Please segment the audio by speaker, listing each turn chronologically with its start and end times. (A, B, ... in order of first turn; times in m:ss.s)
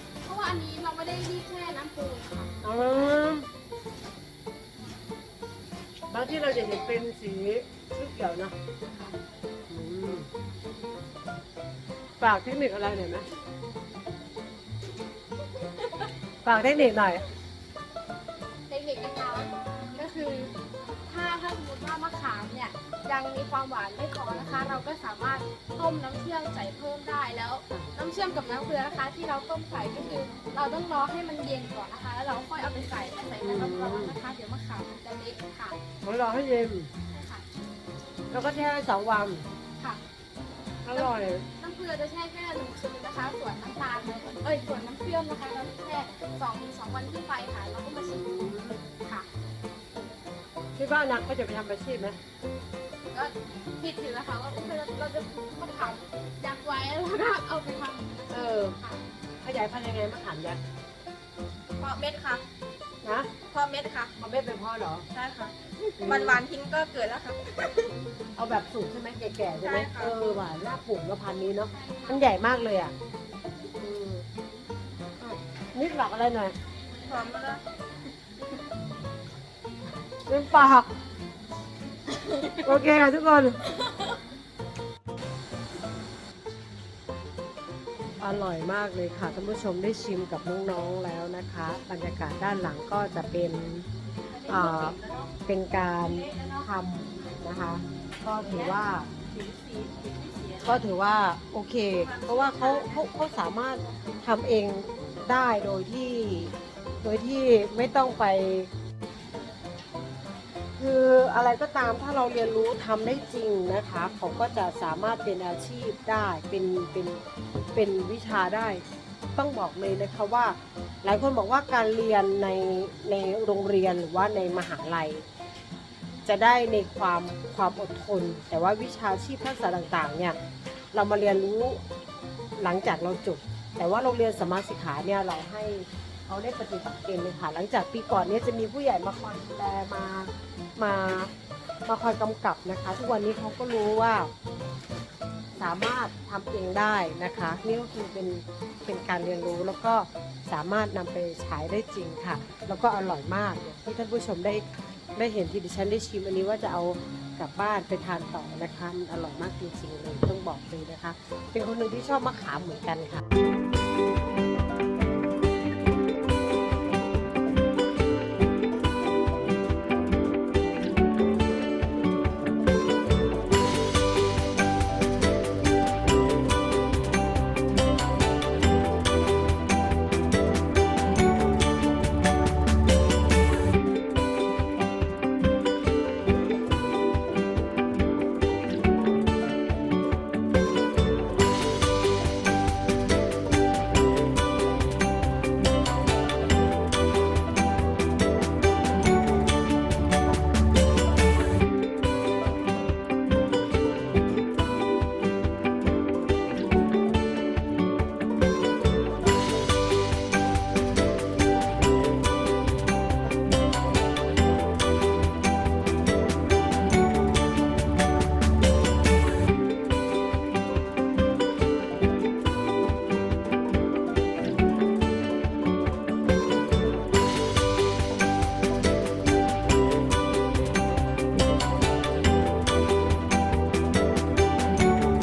0:00.2-0:02.5 A
0:02.6-0:03.5 B
0:06.1-0:08.6 B
0:08.9-0:09.1 A
0:09.7-0:10.3 B
0:12.2-0:13.3 B
0:16.4-0:17.2 B
0:18.7-0:20.5 A
0:21.1-0:35.8 A
0:24.3-0:24.8 B
0:33.4-0:34.2 B
0:36.0-0:36.9 B
0:37.1-0:37.4 A
0:38.3-0:39.4 B
0:40.8-0:41.4 B
0:40.9-0:48.3 A
0:48.0-0:48.8 B
0:50.8-0:52.2 B
0:53.1-0:59.0 A
0:58.3-0:58.8 B
0:59.4-1:00.6 B
1:01.8-1:02.4 C
1:03.0-1:03.3 B
1:03.5-1:04.2 C
1:04.2-1:05.1 B
1:05.1-1:07.9 C
1:06.0-1:06.4 B
1:08.4-1:12.9 B
1:09.6-1:10.2 C
1:11.8-1:12.2 A
1:13.8-1:14.3 B
1:15.3-1:16.6 B
1:17.1-1:17.6 C
1:20.3-1:20.9 B
1:22.5-1:23.6 B
1:28.2-1:33.9 B
1:34.4-1:35.3 C
1:34.5-1:39.1 B
1:36.3-1:36.6 C
1:39.2-1:40.8 C
1:40.6-1:48.7 B
1:42.0-1:43.0 C
1:50.8-1:57.2 B
1:57.7-1:58.8 B
1:59.4-2:05.2 B
2:06.2-2:10.4 B
2:10.9-2:11.8 B
2:12.6-2:21.3 B
2:21.9-2:24.3 B
2:25.6-2:34.6 B
2:35.2-2:43.2 B